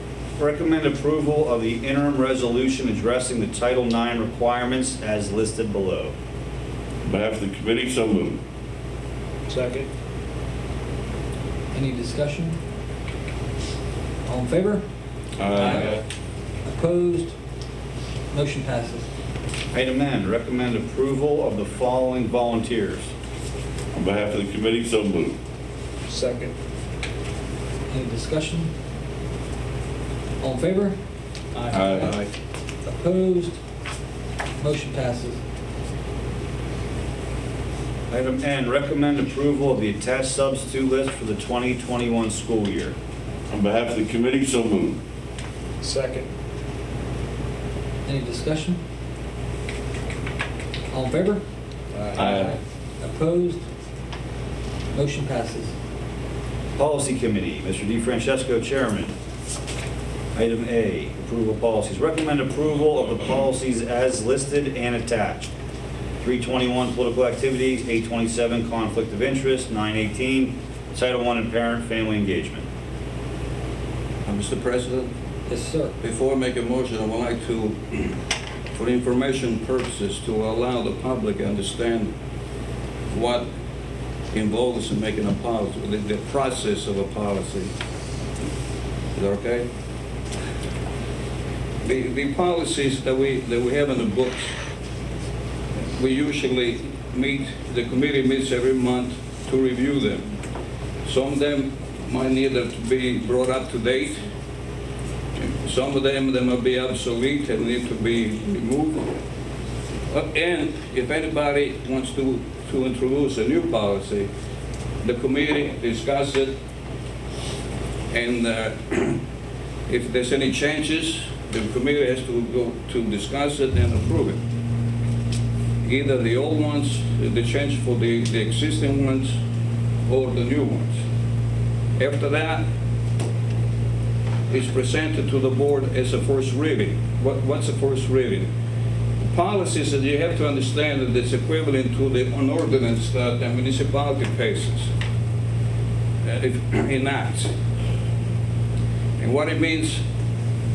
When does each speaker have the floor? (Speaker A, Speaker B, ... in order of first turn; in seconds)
Speaker A: 0.4-6.1, 19.7-23.1, 38.1-42.9, 56.8-59.1, 60.3-65.5, 66.2-72.7
Speaker B: 7.0-8.4, 15.4-15.9, 23.9-25.4, 31.7-32.3, 43.5-45.0, 52.1-52.5
Speaker C: 9.5-9.9, 15.6-16.0, 26.1-26.5, 45.8-46.3, 51.9-52.3
Speaker D: 11.7-12.6, 14.2-14.8, 16.6-17.3, 18.3-19.1, 27.9-28.7, 30.4-31.0, 31.5-32.1, 32.8-33.6, 34.6-35.4, 48.0-48.8, 50.9-51.4, 52.1-53.6, 54.9-55.7, 75.5-76.0
Speaker E: 74.2-75.1, 76.0-78.2, 78.7-82.1, 83.1-83.5, 84.3-87.7, 89.1-89.7, 91.8-94.5, 95.9-100.3, 101.0-104.2, 105.4-109.1, 110.1-114.3, 115.0-116.5, 118.1-119.2, 119.9-124.4, 125.8-129.3, 130.1-131.0, 132.0-132.7, 134.5-138.5, 139.2-144.9, 146.2-147.5, 149.2-150.0